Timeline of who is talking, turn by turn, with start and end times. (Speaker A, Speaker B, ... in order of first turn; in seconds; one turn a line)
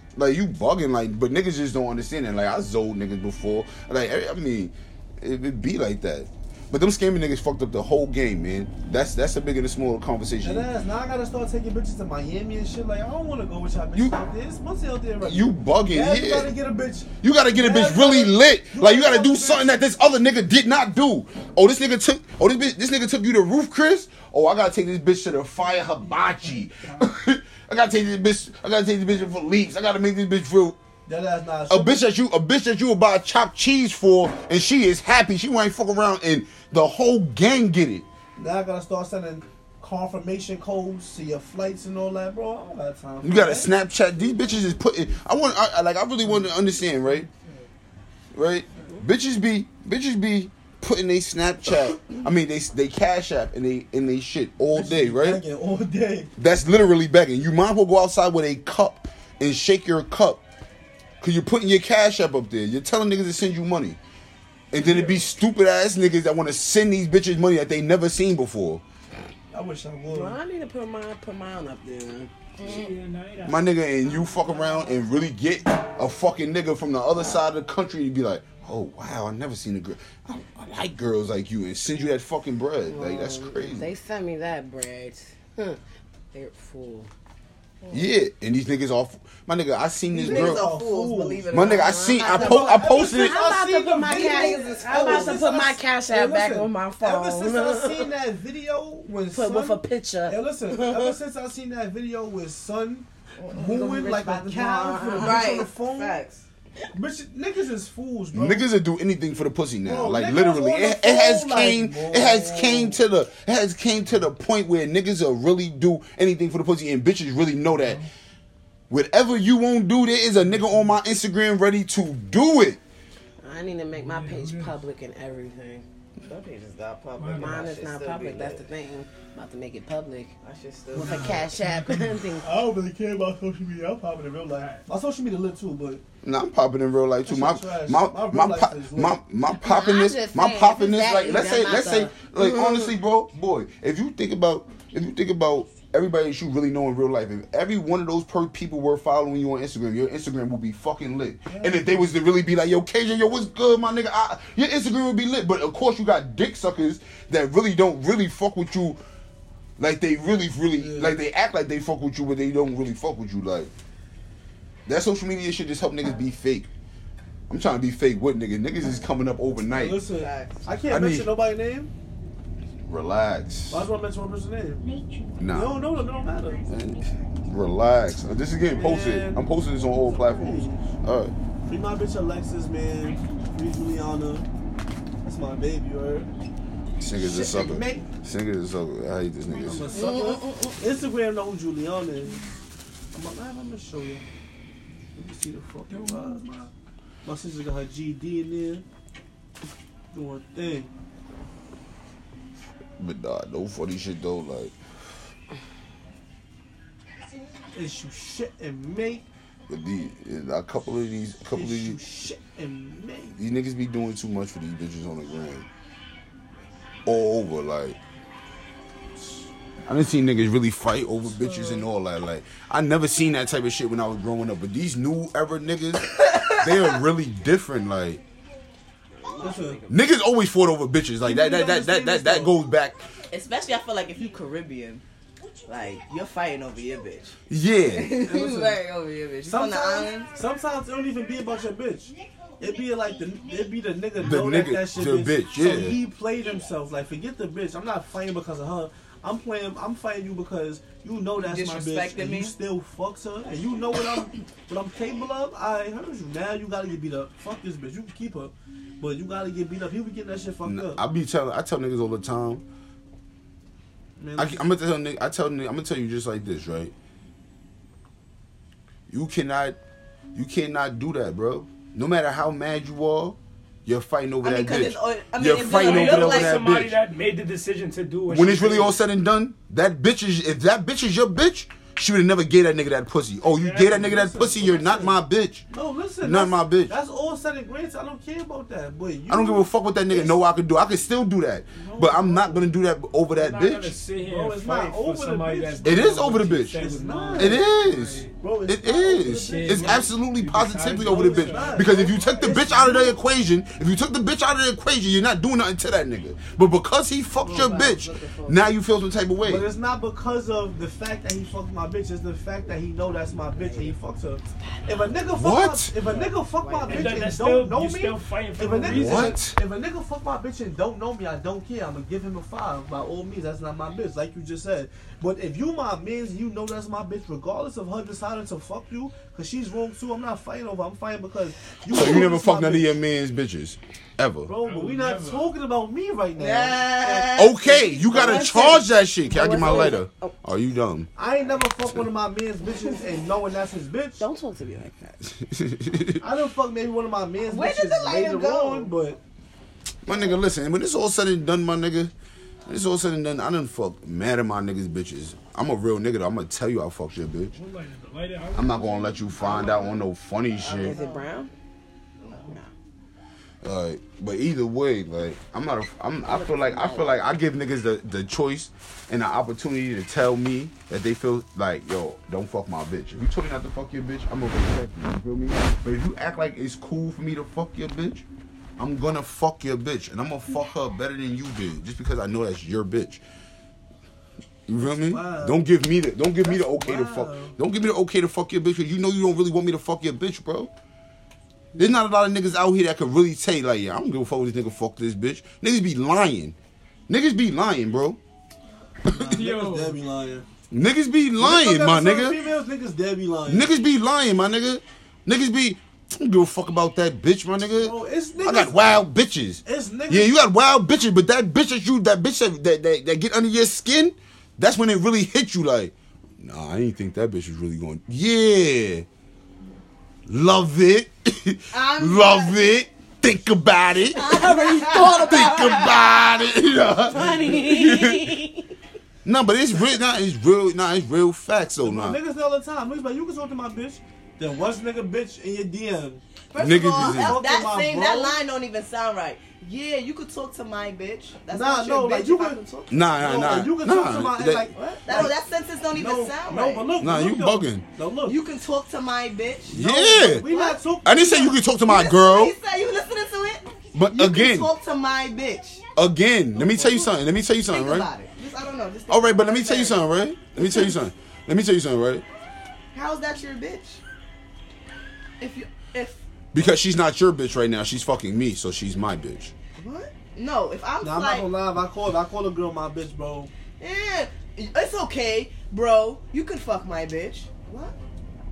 Speaker A: 0.1-10.7
Speaker B: 10.4-20.1
Speaker A: 15.2-16.5
Speaker A: 17.2-30.8
Speaker B: 31.1-32.0
Speaker A: 31.7-38.0
Speaker B: 38.4-43.7
Speaker A: 43.2-47.3
Speaker A: 48.3-55.4
Speaker B: 54.7-56.3
Speaker A: 56.4-60.4
Speaker A: 61.2-64.0
Speaker A: 64.7-68.8
Speaker B: 64.8-65.2
Speaker B: 69.5-70.4
Speaker C: 70.1-72.3
Speaker D: 72.6-72.9
Speaker E: 72.6-73.7
Speaker A: 73.4-83.9
Speaker C: 82.9-85.8
Speaker C: 86.3-87.1
Speaker D: 87.8-88.1
Speaker A: 87.9-90.7
Speaker B: 90.1-91.5
Speaker D: 90.2-93.2
Speaker A: 91.5-93.4
Speaker C: 91.6-98.1
Speaker B: 92.3-106.2
Speaker D: 94.0-95.6
Speaker C: 99.3-101.1
Speaker D: 103.4-103.7
Speaker C: 103.5-105.5
Speaker D: 105.2-106.4
Speaker B: 106.9-108.7
Speaker A: 108.3-118.0
Speaker B: 109.8-113.0
Speaker E: 117.8-118.0
Speaker A: 118.9-122.8
Speaker C: 123.4-125.8
Speaker E: 123.9-124.7
Speaker D: 126.2-128.7
Speaker E: 127.2-127.7
Speaker C: 127.3-130.3
Speaker D: 130.4-131.4
Speaker C: 130.9-132.5
Speaker E: 130.9-132.1
Speaker B: 131.0-131.6
Speaker B: 132.4-136.0
Speaker A: 136.2-159.0
Speaker B: 137.2-139.2
Speaker C: 139.5-142.9
Speaker D: 141.2-142.8
Speaker B: 151.4-152.1
Speaker A: 159.8-163.7
Speaker B: 160.8-161.2
Speaker A: 164.9-166.7
Speaker A: 167.5-170.0
Speaker B: 169.7-171.9
Speaker D: 170.1-170.6
Speaker A: 170.9-171.3
Speaker A: 172.9-173.9
Speaker B: 173.7-174.8
Speaker A: 175.4-175.9
Speaker B: 175.5-176.6
Speaker A: 176.6-181.3
Speaker B: 178.8-180.8
Speaker B: 181.7-184.4
Speaker B: 185.2-186.3
Speaker A: 187.0-189.8
Speaker B: 187.2-188.1
Speaker B: 189.6-192.4
Speaker D: 189.9-190.8
Speaker B: 193.1-194.2
Speaker B: 195.1-196.7
Speaker B: 197.2-198.8
Speaker B: 200.1-200.9
Speaker A: 203.0-204.7
Speaker B: 207.7-209.2
Speaker A: 209.7-212.0
Speaker B: 211.5-213.4
Speaker A: 213.4-215.7
Speaker A: 217.1-218.0
Speaker A: 219.8-228.2
Speaker B: 221.4-221.8
Speaker D: 226.0-227.0
Speaker D: 229.2-230.1
Speaker B: 229.4-229.8
Speaker A: 229.9-233.0
Speaker B: 231.2-232.6
Speaker D: 233.3-235.0
Speaker D: 235.7-240.3
Speaker A: 237.5-238.1
Speaker B: 238.2-238.8
Speaker B: 239.4-261.0
Speaker A: 244.2-245.9
Speaker D: 251.4-252.5
Speaker A: 260.6-262.6
Speaker B: 264.2-264.7
Speaker A: 264.4-266.9
Speaker A: 269.1-269.8
Speaker A: 270.3-276.9
Speaker D: 274.4-276.5
Speaker E: 275.6-279.0
Speaker A: 278.3-285.6
Speaker E: 283.5-284.8
Speaker B: 283.9-285.2
Speaker B: 285.7-290.4
Speaker A: 286.2-286.9
Speaker A: 289.3-293.9
Speaker B: 291.7-292.7
Speaker E: 293.3-298.3
Speaker B: 294.2-297.6
Speaker A: 295.8-296.8
Speaker A: 297.4-309.7
Speaker B: 298.4-300.1
Speaker E: 299.2-302.8
Speaker B: 301.0-303.1
Speaker B: 307.4-307.9
Speaker D: 307.4-308.7
Speaker B: 309.4-333.0
Speaker C: 314.7-315.2
Speaker A: 315.3-315.9
Speaker D: 316.5-317.2
Speaker E: 316.9-319.4
Speaker A: 318.8-319.6
Speaker A: 331.9-334.5
Speaker B: 334.4-338.6
Speaker E: 334.6-335.5
Speaker D: 336.4-338.8
Speaker A: 337.3-341.1
Speaker C: 338.2-338.5
Speaker C: 339.2-340.3
Speaker B: 341.1-344.2
Speaker C: 344.2-345.2
Speaker A: 345.2-346.2
Speaker B: 346.2-349.2
Speaker D: 347.5-348.9
Speaker A: 350.0-352.1
Speaker A: 352.7-357.5
Speaker E: 357.5-359.9
Speaker A: 358.5-360.9
Speaker D: 360.6-361.3
Speaker C: 360.7-361.5
Speaker D: 362.2-362.6
Speaker C: 362.3-362.7
Speaker A: 363.6-378.2
Speaker C: 366.3-367.1
Speaker A: 378.8-383.2
Speaker A: 384.7-390.7
Speaker B: 384.8-385.6
Speaker B: 386.4-387.6
Speaker A: 391.7-396.5
Speaker A: 397.1-398.2
Speaker B: 399.1-400.4
Speaker E: 399.1-400.0
Speaker A: 400.7-402.4
Speaker B: 401.4-403.7
Speaker A: 403.5-419.1
Speaker B: 407.8-408.9
Speaker B: 409.6-410.5
Speaker A: 420.3-428.4
Speaker D: 421.7-422.7
Speaker D: 424.1-426.1
Speaker C: 424.2-426.0
Speaker C: 426.9-428.7
Speaker A: 429.2-432.2
Speaker B: 431.8-436.2
Speaker D: 436.5-442.6
Speaker A: 436.6-437.4
Speaker B: 437.0-438.4
Speaker B: 441.5-445.4
Speaker A: 442.9-445.3
Speaker D: 445.0-446.9
Speaker B: 445.9-448.4
Speaker A: 447.0-447.8
Speaker D: 448.2-450.8
Speaker A: 449.7-450.5
Speaker B: 449.7-451.6
Speaker A: 451.0-452.5
Speaker D: 451.8-455.8
Speaker A: 453.9-454.7
Speaker A: 455.9-458.1
Speaker B: 456.5-457.1
Speaker D: 457.7-460.0
Speaker A: 459.1-462.2
Speaker D: 460.6-460.9
Speaker D: 462.9-464.0
Speaker D: 465.4-466.2
Speaker A: 466.5-469.5
Speaker D: 469.8-471.5
Speaker B: 471.0-473.5
Speaker D: 473.8-477.9